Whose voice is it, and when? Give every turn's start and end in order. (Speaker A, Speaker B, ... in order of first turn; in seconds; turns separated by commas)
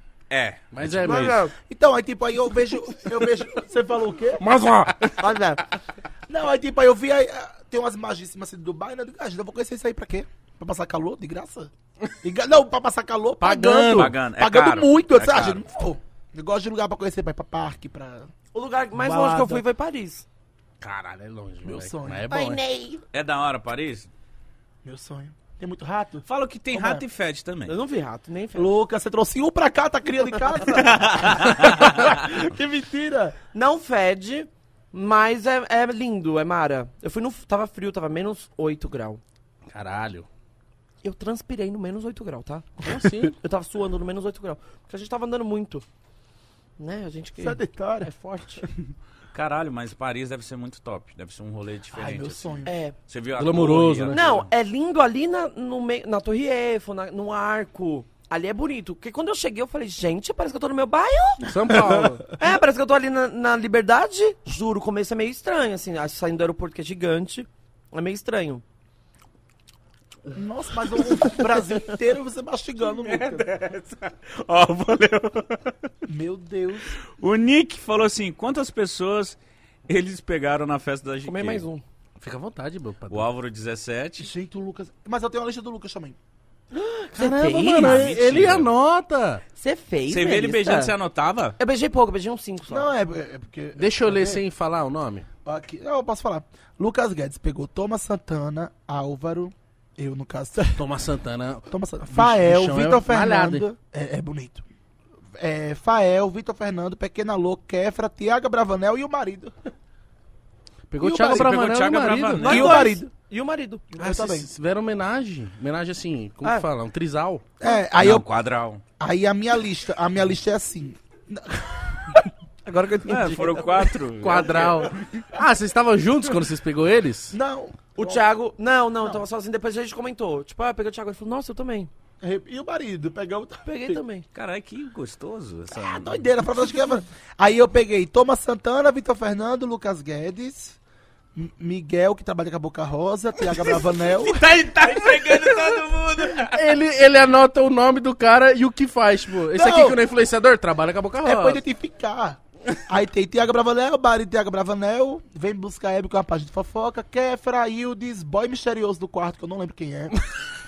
Speaker A: 0.3-1.4, Speaker B: 0.7-1.4, Speaker C: 1.0-1.5, Speaker D: 1.6-4.5, Speaker B: 4.4-5.3, Speaker C: 5.2-5.6, Speaker D: 6.3-11.7, Speaker D: 12.2-18.3, Speaker B: 13.4-14.1, Speaker A: 13.9-15.6, Speaker C: 18.5-20.2, Speaker D: 18.9-19.6, Speaker B: 20.8-22.6, Speaker D: 21.6-22.6, Speaker C: 22.3-23.0, Speaker A: 23.1-24.1, Speaker D: 24.8-27.0, Speaker A: 26.3-27.8, Speaker C: 27.7-28.7, Speaker D: 28.6-31.3, Speaker A: 30.7-32.2, Speaker D: 31.8-33.4, Speaker C: 32.0-32.3, Speaker C: 33.4-39.2, Speaker B: 39.7-40.3, Speaker C: 41.0-45.8, Speaker B: 42.8-43.3, Speaker C: 46.8-48.6, Speaker D: 47.4-48.1, Speaker A: 49.3-54.5, Speaker D: 51.9-52.7, Speaker C: 52.6-53.0, Speaker B: 53.3-54.2, Speaker C: 54.1-61.4, Speaker D: 61.4-62.2, Speaker B: 61.5-62.2, Speaker C: 62.4-68.6, Speaker D: 70.3-73.5, Speaker A: 72.9-75.7, Speaker D: 76.0-77.0, Speaker A: 77.1-81.7, Speaker C: 81.3-81.8, Speaker B: 82.2-83.3, Speaker A: 83.1-84.3, Speaker D: 84.2-86.2, Speaker C: 86.7-88.0, Speaker B: 87.1-89.4, Speaker A: 87.8-88.7, Speaker C: 89.5-90.9, Speaker A: 90.1-91.6, Speaker C: 91.6-92.9, Speaker D: 92.7-94.4, Speaker B: 93.8-95.3, Speaker D: 95.4-100.8, Speaker B: 100.7-103.7, Speaker D: 101.7-104.6, Speaker D: 105.4-109.5, Speaker B: 110.9-112.8, Speaker D: 111.0-111.5, Speaker A: 111.2-112.9, Speaker D: 112.4-113.1, Speaker C: 112.4-113.8, Speaker D: 113.9-114.5, Speaker B: 114.0-117.5, Speaker C: 116.4-116.7, Speaker D: 117.6-118.3, Speaker A: 117.9-118.8, Speaker D: 119.0-122.3, Speaker C: 122.6-123.9, Speaker A: 123.0-125.2, Speaker B: 124.2-127.4, Speaker D: 127.3-128.2, Speaker C: 128.0-131.9, Speaker D: 132.2-134.0, Speaker C: 133.6-134.3, Speaker A: 134.3-136.2, Speaker D: 135.7-140.8, Speaker D: 141.3-144.4, Speaker A: 144.1-146.8, Speaker B: 146.4-151.6, Speaker D: 149.5-150.0, Speaker D: 151.2-160.2